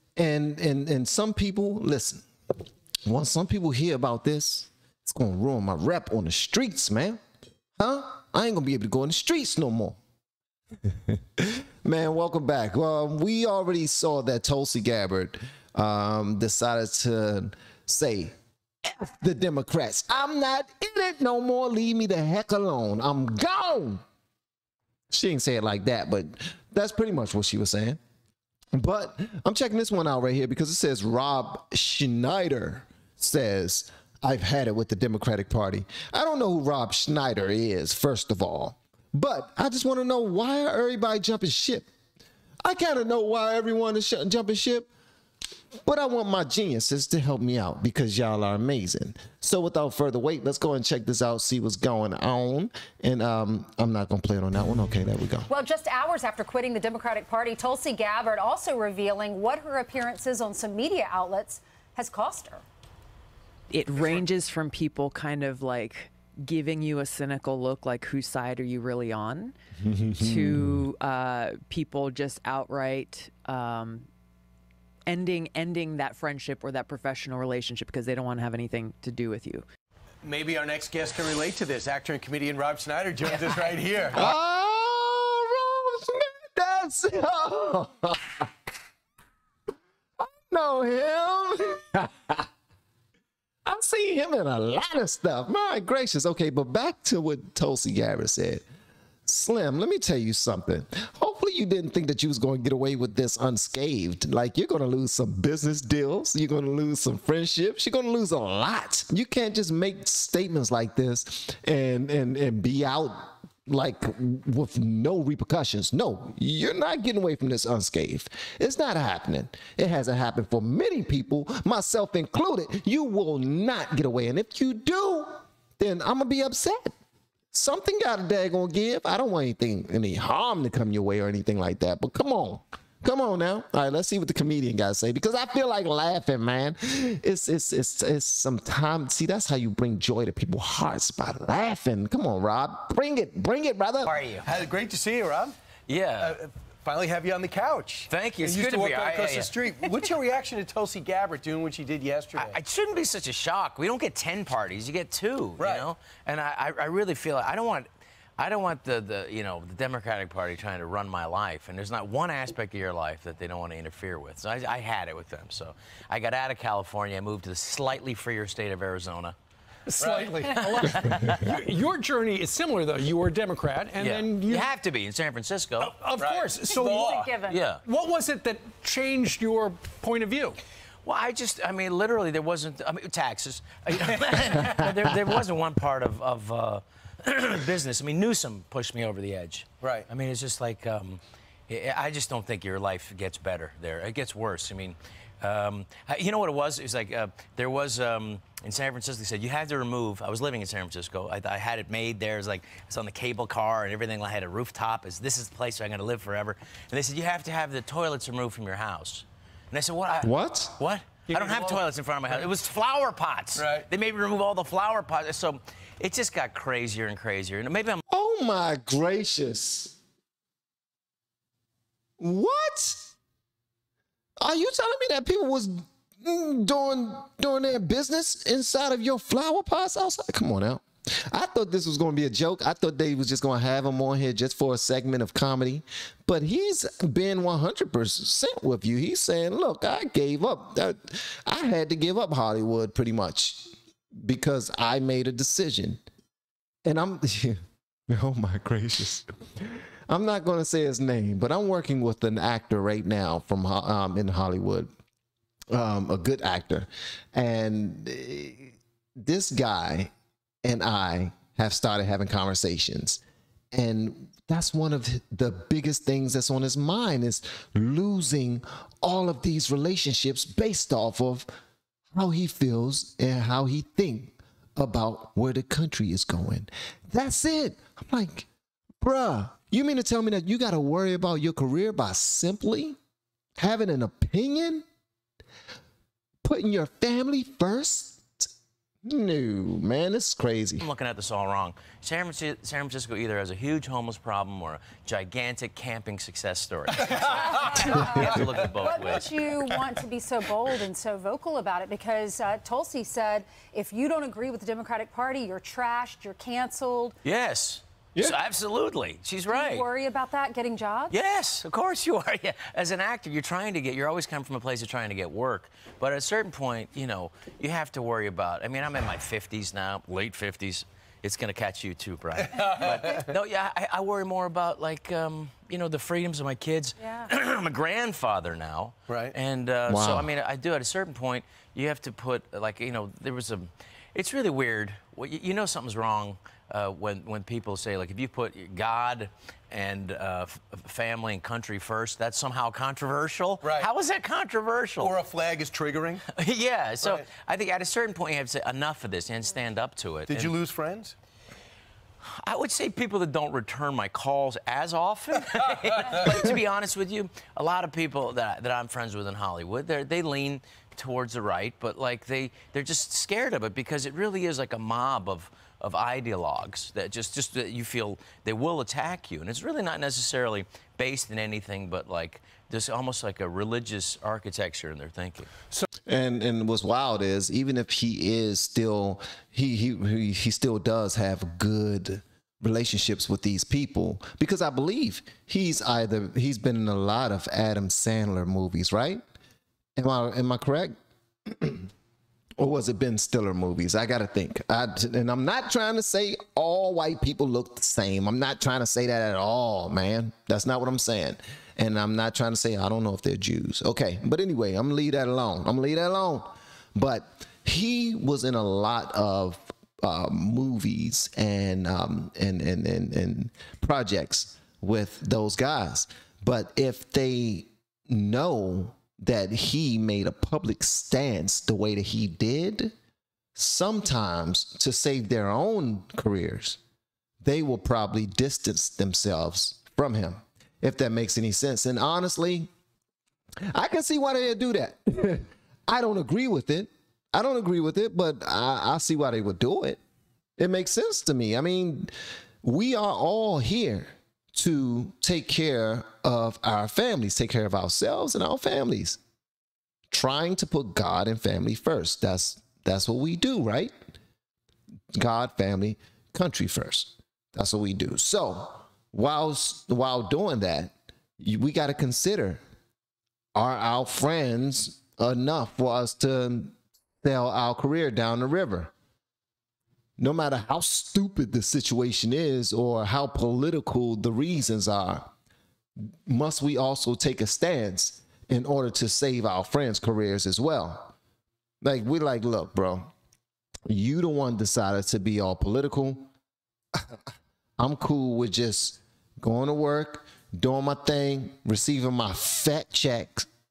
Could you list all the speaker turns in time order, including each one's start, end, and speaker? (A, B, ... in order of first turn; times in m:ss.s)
0:00.2-0:02.2 A
0:03.0-0:07.2 A
0:07.8-0:10.0 A
0:11.1-0:18.3 A
0:18.8-0:24.0 A
0:25.1-0:28.0 A
0:28.7-0:41.9 A
0:42.6-0:44.9 A
0:45.8-0:55.5 A
0:55.5-1:02.6 B
1:03.7-1:09.5 C
1:09.8-1:10.8 A
1:10.1-1:14.1 C
1:15.1-1:19.6 C
1:20.2-1:24.3 D
1:23.3-1:23.5 C
1:24.1-1:28.5 A
1:30.2-1:32.5 A
1:33.6-1:38.6 A
1:39.2-2:06.9 A
2:07.5-2:24.1 A
2:24.0-2:24.5 E
2:24.4-2:25.5 D
2:25.9-2:26.4 E
2:26.2-2:32.6 D
2:28.1-2:29.6 E
2:32.3-2:49.3 E
2:35.6-2:35.9 D
2:49.9-2:54.7 F
2:49.9-2:50.4 D
2:50.5-2:51.4 E
2:54.0-2:56.0 E
2:55.8-3:00.6 F
2:56.1-2:57.3 D
2:56.7-2:57.6 B
2:57.5-2:57.8 E
3:01.0-3:38.0 E
3:09.8-3:10.1 D
3:30.2-3:30.8 A
3:31.3-3:32.3 F
3:33.5-3:33.9 D
3:38.1-3:39.9 A
3:42.2-3:43.1 A
3:44.4-4:03.7 A
4:04.2-4:06.0 A
4:06.8-4:14.9 A
4:15.7-4:20.1 A
4:20.6-4:23.2 A
4:23.7-4:31.5 A
4:32.1-4:38.5 A
4:39.0-4:43.0 A
4:43.6-4:44.8 A
4:46.4-4:48.5 A
4:49.0-4:50.9 A
4:50.8-4:59.5 E
4:57.0-4:57.3 D
4:57.2-5:07.2 B
4:58.3-4:58.6 D
5:07.2-5:09.8 E
5:09.5-5:11.2 B
5:11.1-5:45.2 E
5:22.5-5:23.1 D
5:27.0-5:27.3 B
5:29.1-5:29.3 D
5:29.9-5:30.3 A
5:43.6-5:43.9 D
5:45.0-5:46.2 D
5:46.3-5:50.6 E
5:50.3-5:51.1 D
5:52.3-6:15.5 E
6:16.1-6:29.2 A
6:30.0-6:30.9 A
6:31.5-6:31.9 A
6:32.6-7:02.9 A
7:03.6-7:06.8 A
7:07.4-7:12.7 A
7:13.7-7:20.0 A
7:20.6-7:22.1 A
7:22.6-7:29.2 A
7:30.1-7:33.9 A
7:35.1-7:42.6 A
7:43.5-7:48.9 A
7:50.2-7:55.3 A
7:56.0-8:01.1 A
8:01.8-8:03.1 A
8:03.9-8:06.3 A
8:07.8-8:13.4 A